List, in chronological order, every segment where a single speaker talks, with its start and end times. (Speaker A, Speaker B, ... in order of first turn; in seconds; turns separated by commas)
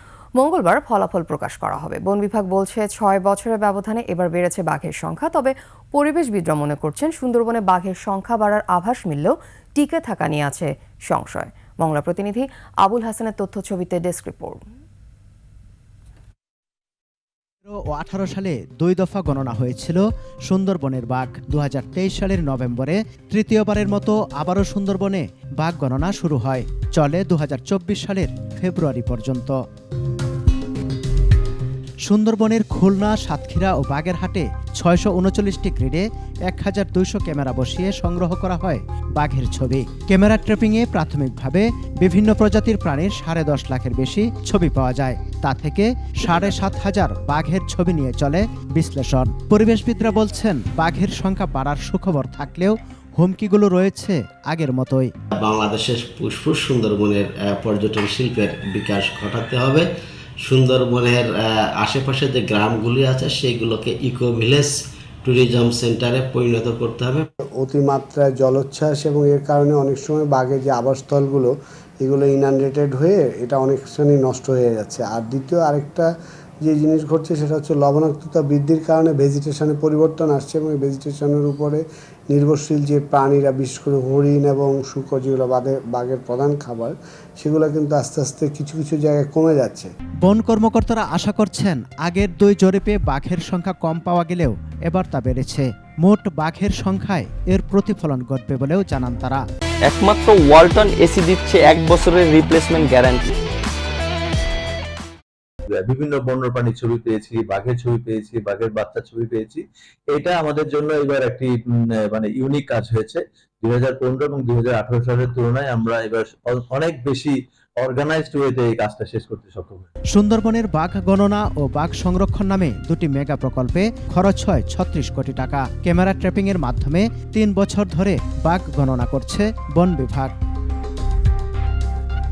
Speaker A: 0.4-14.6, Speaker B: 17.7-29.6, Speaker B: 32.0-55.1, Speaker C: 55.4-59.9, Speaker C: 60.4-64.7, Speaker C: 65.2-67.2, Speaker D: 67.6-76.1, Speaker D: 76.6-89.9, Speaker B: 90.2-99.4, Speaker E: 99.9-103.3, Speaker F: 105.7-111.6, Speaker F: 112.1-119.9, Speaker B: 120.1-130.3